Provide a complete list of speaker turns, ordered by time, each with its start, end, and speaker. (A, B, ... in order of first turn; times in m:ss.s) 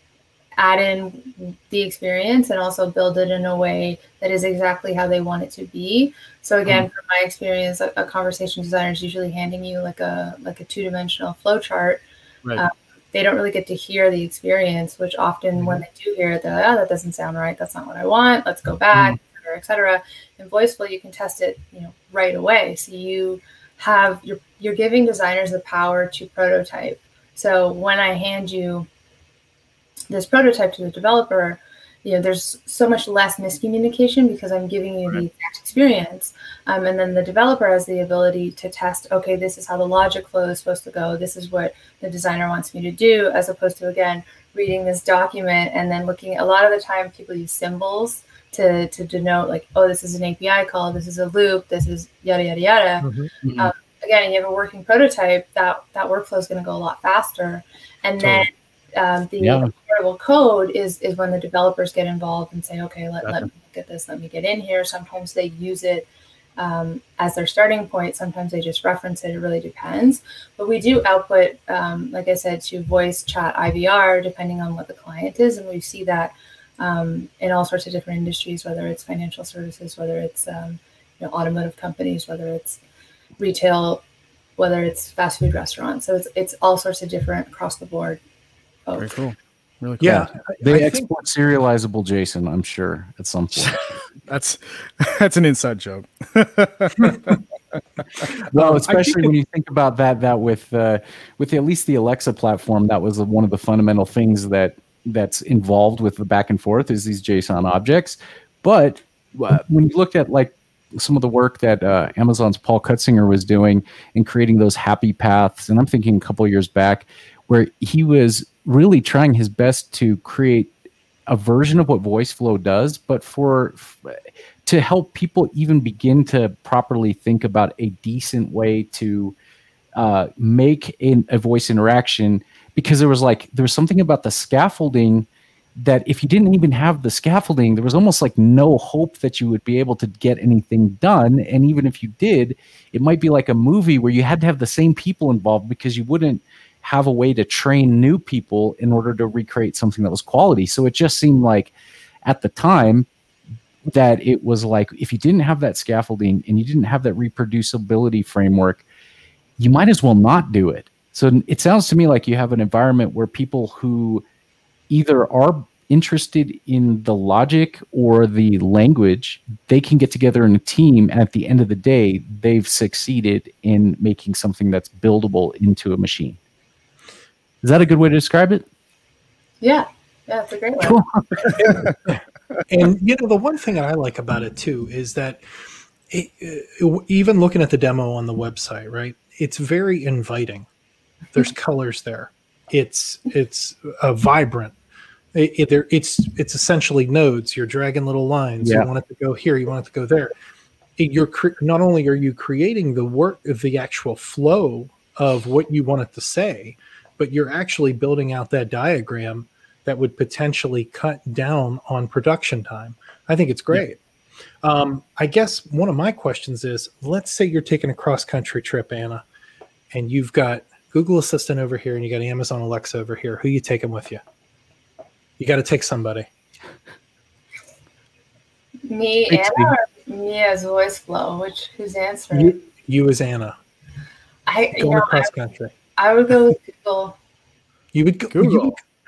0:00.6-0:12.0 A
0:12.6-0:28.9 A
0:15.6-0:15.8 B
0:30.1-1:22.8 A
0:53.0-0:53.3 C
0:53.4-0:53.7 B
0:58.2-0:58.5 C
0:59.4-0:59.7 D
1:23.4-1:24.0 A
1:24.6-1:28.2 A
1:29.0-1:30.2 B
1:30.0-1:31.1 C
1:30.1-1:33.8 D
1:33.6-1:37.4 B
1:38.5-1:39.3 C
1:38.5-2:00.7 D
2:01.3-2:09.4 D
2:10.0-2:31.7 D
2:32.2-2:33.1 D
2:33.8-2:38.8 D
2:39.6-2:44.2 D
2:44.9-2:56.4 D
2:57.6-2:58.6 D
2:59.6-3:01.0 A
3:01.6-3:05.4 C
3:06.1-3:10.7 C
3:11.3-3:14.8 C
3:15.3-3:20.3 C
3:18.6-3:18.9 D
3:21.0-3:34.0 C
3:34.6-3:39.2 C
3:39.9-3:44.2 C
3:45.4-3:46.3 C
3:48.9-3:52.6 A
3:49.3-3:49.7 D
3:52.3-3:53.6 C
3:54.5-3:55.3 A
3:54.8-3:55.7 C
3:56.0-3:57.2 A
3:57.9-3:58.8 C
3:58.3-3:58.7 B